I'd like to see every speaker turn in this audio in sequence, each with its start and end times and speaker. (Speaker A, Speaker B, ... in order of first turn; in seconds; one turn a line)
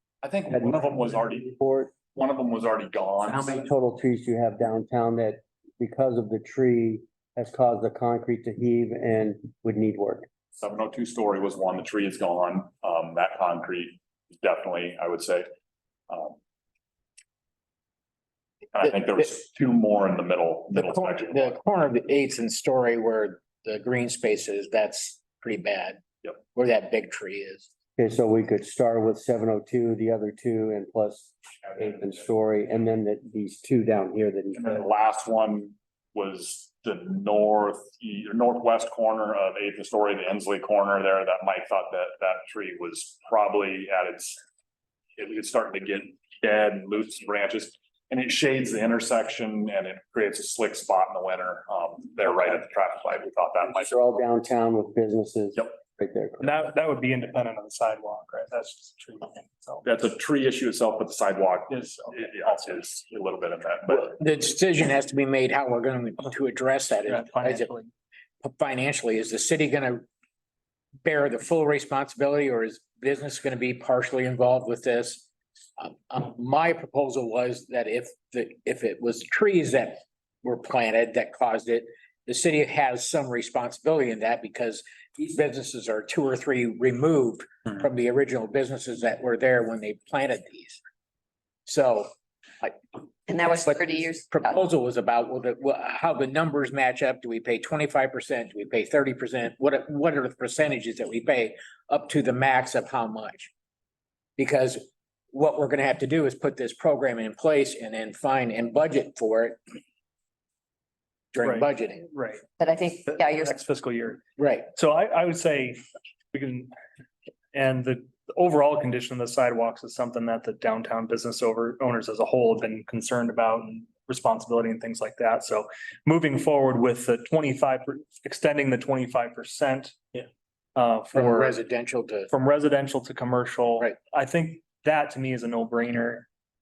Speaker A: 0.2-1.5
Speaker B: 0.5-1.9
Speaker A: 2.1-3.5
Speaker B: 3.2-10.3
Speaker A: 10.6-15.5
Speaker A: 16.1-16.4
Speaker A: 18.7-21.4
Speaker C: 18.8-19.2
Speaker C: 20.7-27.7
Speaker B: 28.0-34.8
Speaker A: 34.5-44.4
Speaker A: 45.2-53.9
Speaker B: 53.7-56.5
Speaker D: 56.4-59.9
Speaker A: 59.9-64.0
Speaker D: 61.8-62.9
Speaker C: 63.9-67.7
Speaker D: 67.0-67.9
Speaker C: 68.4-70.0
Speaker C: 71.0-90.8
Speaker C: 91.7-92.1
Speaker E: 93.3-94.6
Speaker C: 93.4-103.5
Speaker C: 104.4-109.6
Speaker C: 111.3-112.1
Speaker D: 111.4-112.4
Speaker E: 112.6-113.6
Speaker D: 113.1-114.2
Speaker C: 114.4-114.7
Speaker D: 114.7-115.8
Speaker D: 116.3-116.7
Speaker D: 117.5-130.2
Speaker D: 130.8-131.6
Speaker C: 131.1-132.3
Speaker D: 132.3-136.3